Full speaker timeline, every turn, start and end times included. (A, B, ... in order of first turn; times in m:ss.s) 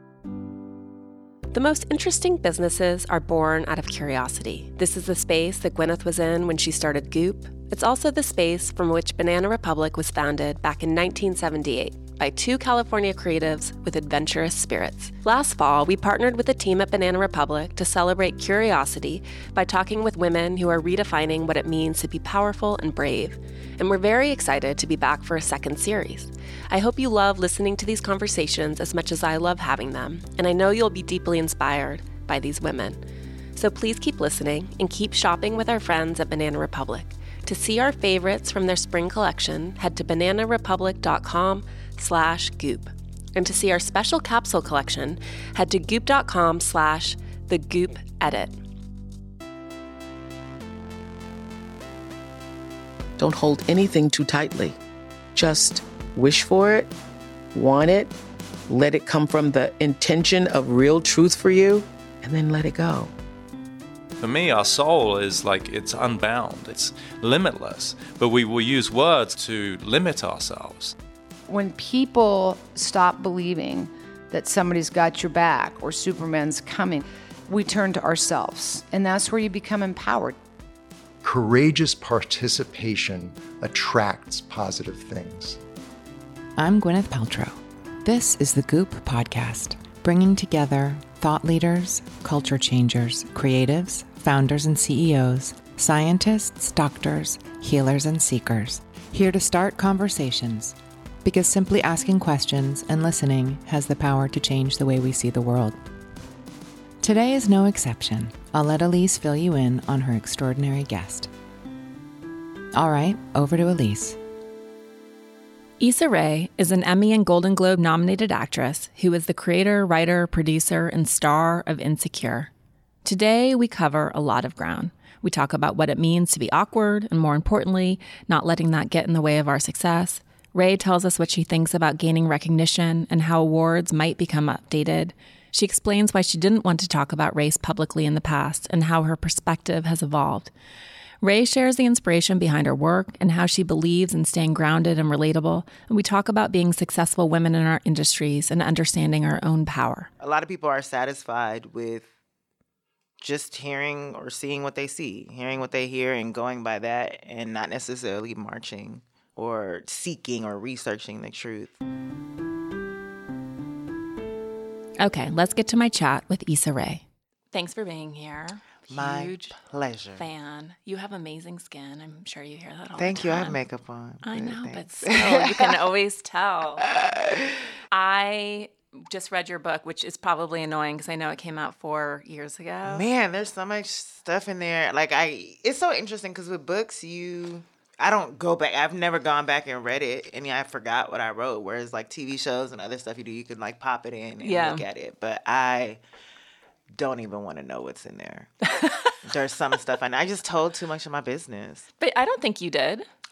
0:01.5-0:33.0 A
0:33.6-0:48.6 A
0:53.2-0:54.8 B
0:55.4-0:56.9 B
0:57.5-0:58.1 B
0:58.7-1:03.1 B
1:04.2-1:11.0 C
1:11.5-1:20.4 D
1:21.2-1:25.6 E
1:26.6-1:45.8 F
1:47.0-1:51.3 F
1:52.7-1:54.2 F
1:55.8-2:02.5 G
2:03.0-2:20.5 G
2:21.2-2:30.1 G
2:30.2-2:32.1 H
2:33.2-2:41.8 H
2:45.0-2:49.6 G
2:48.9-2:50.2 H
2:50.2-2:53.6 G
2:53.0-2:55.8 H
2:54.2-2:56.9 G
2:56.9-2:57.6 H
2:57.9-3:03.0 G
3:02.8-3:16.0 H
3:14.4-3:14.8 G
3:16.9-3:18.5 H
3:18.7-3:19.2 G
3:19.2-3:21.9 H
3:22.0-3:23.1 G